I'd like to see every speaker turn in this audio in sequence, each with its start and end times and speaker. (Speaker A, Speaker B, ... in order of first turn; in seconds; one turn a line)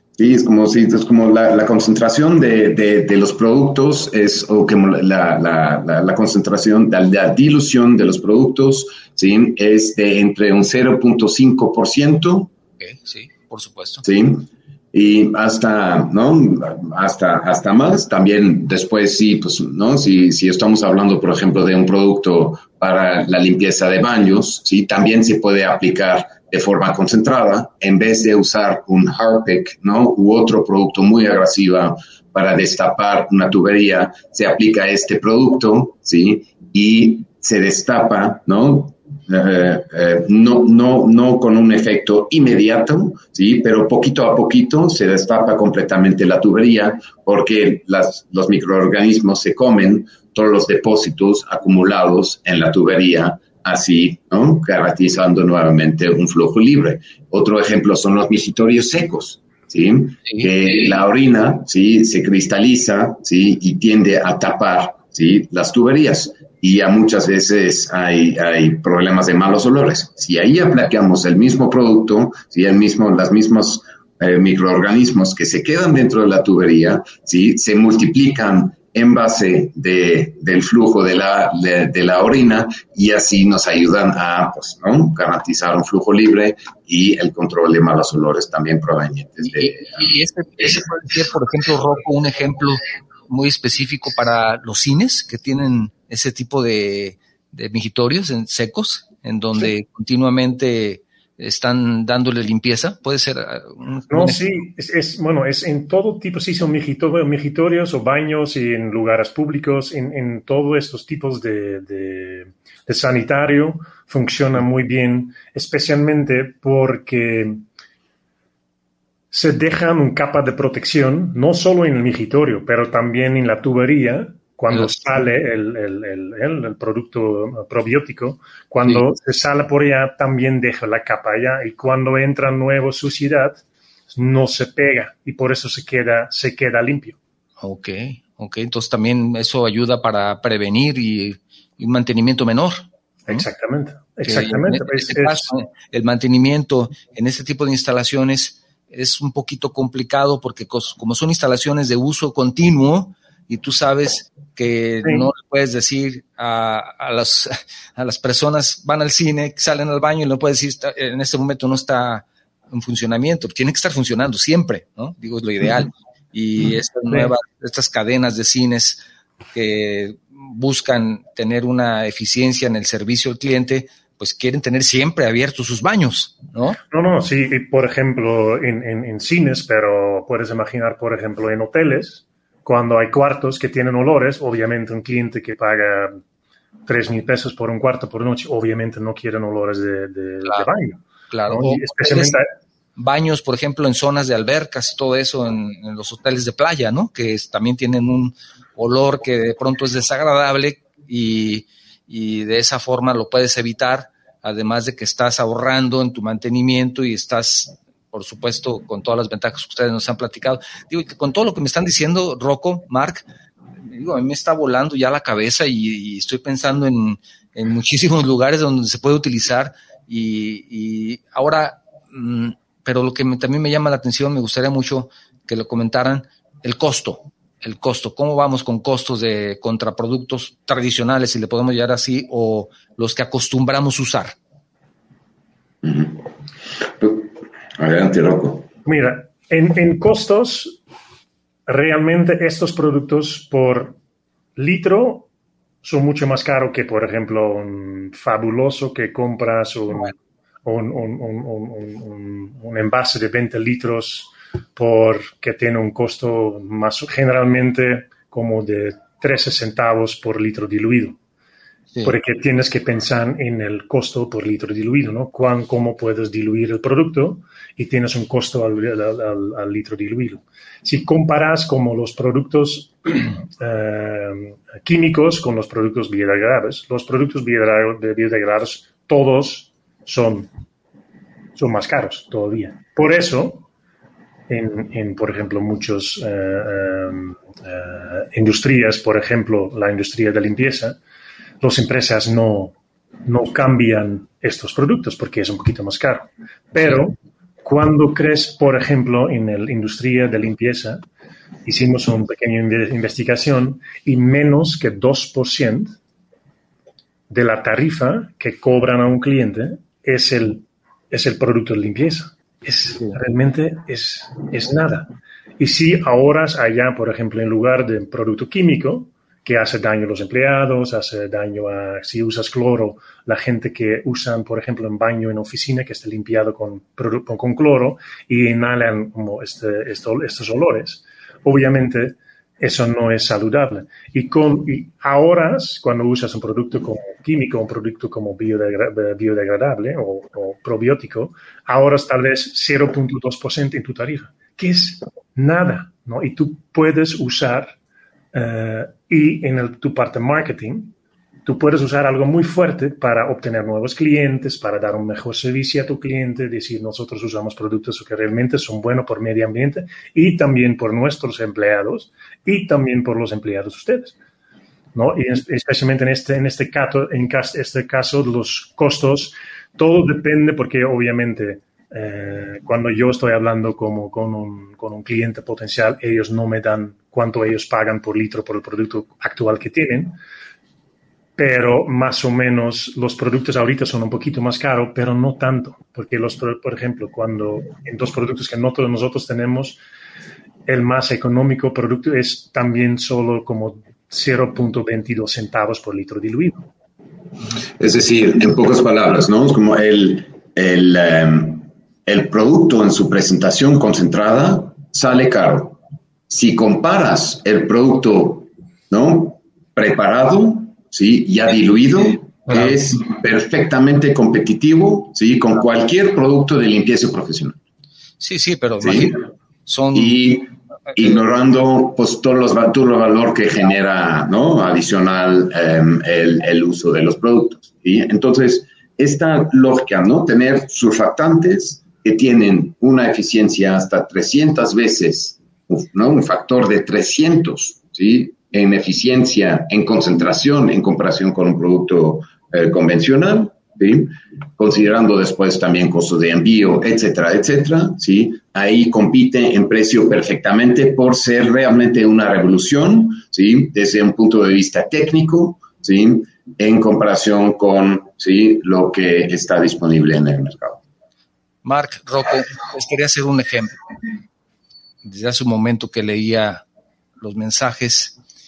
Speaker A: 0.2-12.5
Speaker B: 12.8-14.1
Speaker A: 14.0-90.0
Speaker B: 89.4-104.4
Speaker C: 104.1-117.6
Speaker C: 119.3-133.6
Speaker B: 124.7-125.0
Speaker C: 134.1-137.2
Speaker B: 137.6-143.4
Speaker C: 143.3-145.5
Speaker B: 144.2-169.0
Speaker B: 169.6-176.8
Speaker C: 176.9-186.2
Speaker C: 186.9-192.5
Speaker B: 190.4-190.7
Speaker B: 191.3-192.4
Speaker B: 193.0-213.3
Speaker B: 213.9-234.4
Speaker A: 235.8-236.2
Speaker A: 237.0-238.7
Speaker C: 238.8-240.8
Speaker C: 241.7-244.0
Speaker C: 244.6-245.3
Speaker C: 245.8-261.2
Speaker C: 262.0-280.5
Speaker C: 281.6-283.7
Speaker C: 284.5-291.0
Speaker C: 291.6-292.8
Speaker C: 293.3-301.0
Speaker B: 296.8-297.0
Speaker C: 301.6-306.0
Speaker C: 307.3-347.8
Speaker C: 348.3-350.9
Speaker C: 351.5-364.1
Speaker C: 364.9-380.2
Speaker C: 381.4-389.8
Speaker C: 390.7-396.7
Speaker A: 397.8-405.8
Speaker A: 406.3-417.6
Speaker B: 412.5-412.8
Speaker B: 418.2-420.2
Speaker A: 418.8-419.1
Speaker A: 419.9-460.8
Speaker B: 461.6-463.8
Speaker B: 465.0-466.6
Speaker B: 467.2-468.2